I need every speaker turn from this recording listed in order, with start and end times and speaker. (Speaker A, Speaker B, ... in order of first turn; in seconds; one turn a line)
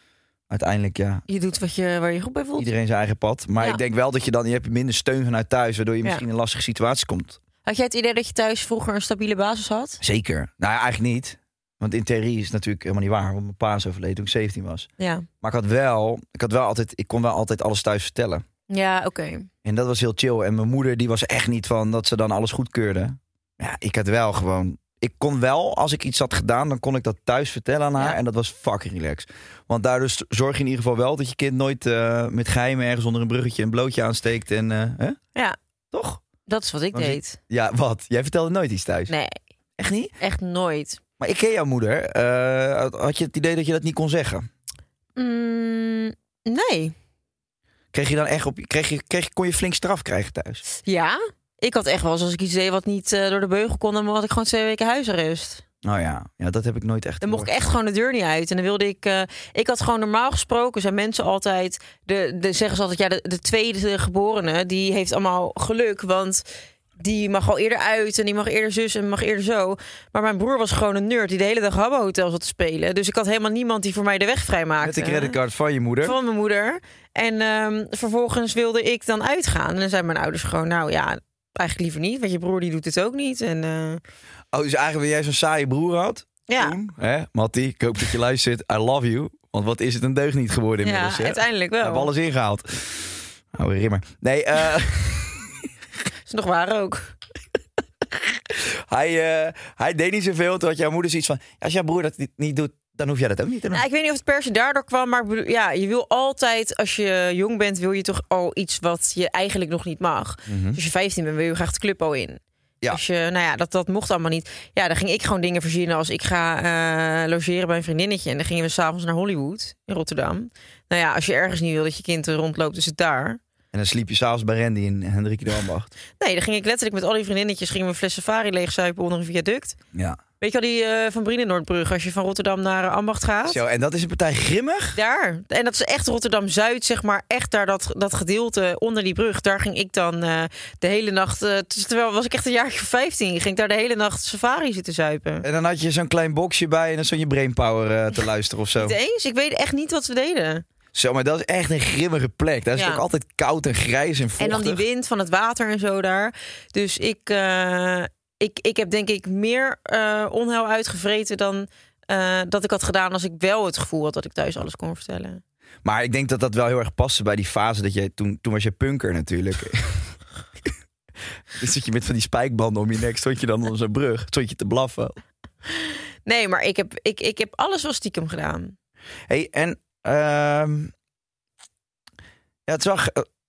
Speaker A: 0.5-1.2
Speaker B: 1.3-2.7
Speaker A: 2.6-7.4
Speaker B: 7.6-10.0
Speaker A: 10.0-14.9
Speaker B: 15.0-15.2
Speaker A: 15.4-18.4
Speaker B: 18.7-19.5
Speaker A: 19.6-35.2
Speaker A: 35.9-36.2
Speaker B: 36.5-37.4
Speaker A: 36.9-39.1
Speaker B: 39.1-39.4
Speaker A: 39.8-40.1
Speaker B: 40.2-41.0
Speaker A: 41.2-44.5
Speaker B: 45.1-46.9
Speaker A: 47.9-50.6
Speaker B: 50.8-55.6
Speaker A: 55.8-57.5
Speaker B: 57.2-66.5
Speaker B: 67.0-75.3
Speaker A: 74.8-76.1
Speaker B: 76.0-84.0
Speaker A: 84.5-95.7
Speaker B: 86.5-86.8
Speaker B: 90.8-92.1
Speaker B: 96.3-97.1
Speaker A: 98.2-103.8
Speaker B: 103.7-123.4
Speaker A: 110.5-110.8
Speaker A: 123.7-125.9
Speaker B: 126.2-129.8
Speaker A: 129.9-130.2
Speaker B: 130.4-133.6
Speaker A: 133.5-135.0
Speaker B: 134.9-145.4
Speaker A: 145.4-149.0
Speaker B: 148.8-150.6
Speaker A: 150.9-154.8
Speaker B: 152.8-153.0
Speaker B: 154.4-165.4
Speaker A: 165.8-170.1
Speaker A: 171.5-175.2
Speaker B: 175.7-178.8
Speaker A: 179.3-180.9
Speaker A: 182.7-183.2